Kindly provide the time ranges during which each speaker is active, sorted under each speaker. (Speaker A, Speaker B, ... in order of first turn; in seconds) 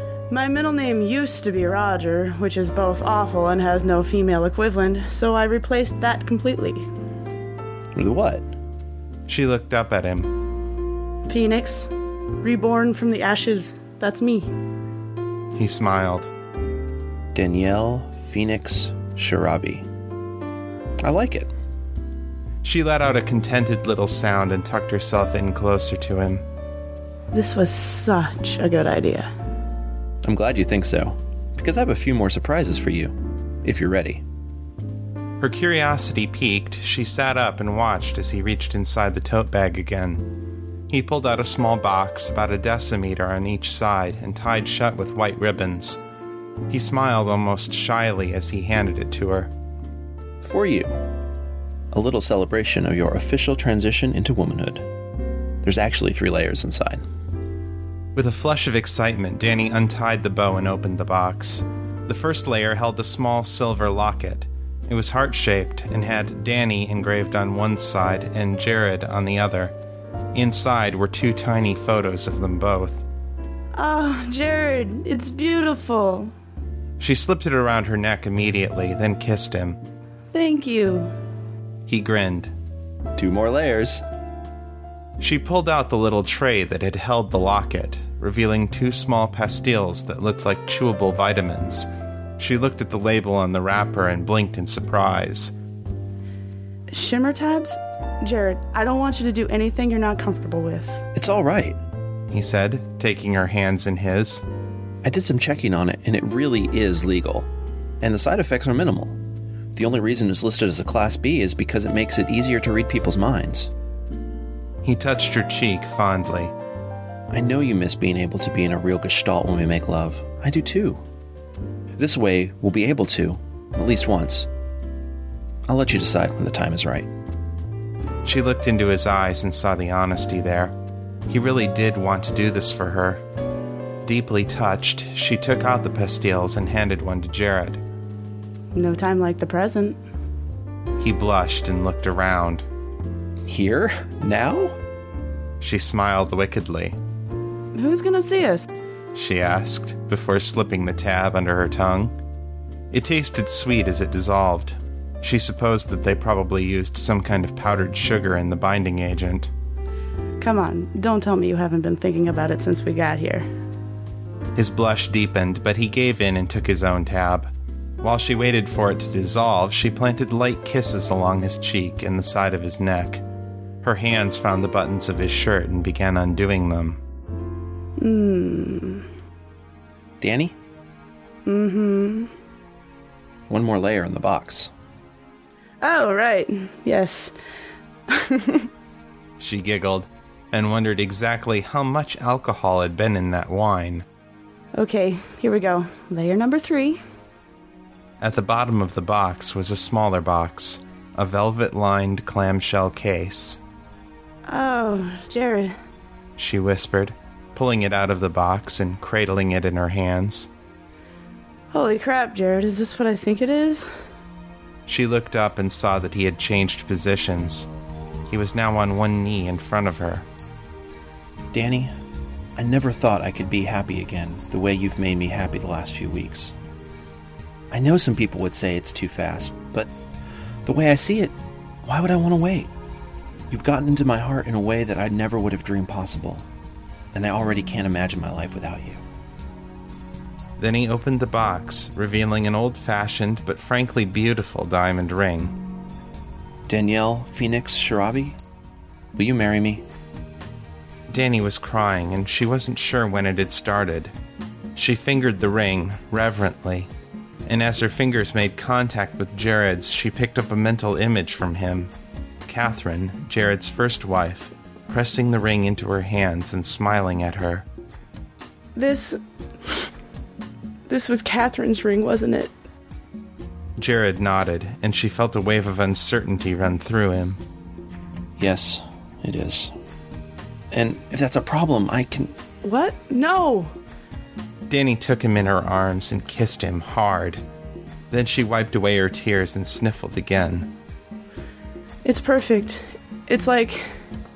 Speaker A: 0.3-6.9, 11.3-11.9, 12.4-14.5, 27.3-29.3, 73.8-76.3, 80.3-81.1, 96.9-101.0, 138.7-140.0, 147.8-148.7, 160.4-163.5, 178.0-179.1, 181.4-182.3, 185.8-187.3, 188.1-188.7, 194.8-197.0, 204.5-205.8, 211.7-213.9, 268.7-269.9, 270.9-272.5, 282.6-283.7, 292.0-294.0
Speaker B: 7.9-8.5, 17.3-19.9, 21.0-21.5, 30.2-34.2, 50.4-51.0, 51.9-54.9, 55.6-57.1, 83.2-84.0, 101.1-101.8, 105.0-107.5, 108.0-109.2, 109.8-113.7, 117.3-121.0, 122.0-124.5, 125.7-127.1, 143.4-144.8, 180.2-180.6, 183.5-184.7, 221.5-221.9, 222.6-226.6, 227.7-229.9, 230.7-232.7, 233.5-236.5, 237.1-239.0, 246.7-248.4, 249.2-249.8, 278.4-279.7, 280.7-282.4
Speaker C: 9.3-10.3, 15.6-16.3, 22.6-26.4, 35.4-40.3, 40.9-46.0, 46.7-49.5, 58.1-69.7, 70.3-73.0, 77.0-79.8, 81.9-82.5, 85.2-95.5, 102.3-104.4, 114.8-116.5, 128.2-130.8, 131.3-133.2, 134.0-137.8, 141.0-142.7, 145.6-147.0, 149.1-152.1, 152.9-159.5, 164.6-167.5, 168.0-173.2, 173.8-177.0, 189.4-194.1, 198.2-203.6, 206.4-210.5, 214.9-217.7, 218.3-220.2, 240.6-245.6, 251.1-254.1, 254.8-256.9, 257.4-261.9, 262.4-267.7, 273.8-277.4, 284.7-287.4, 288.1-290.7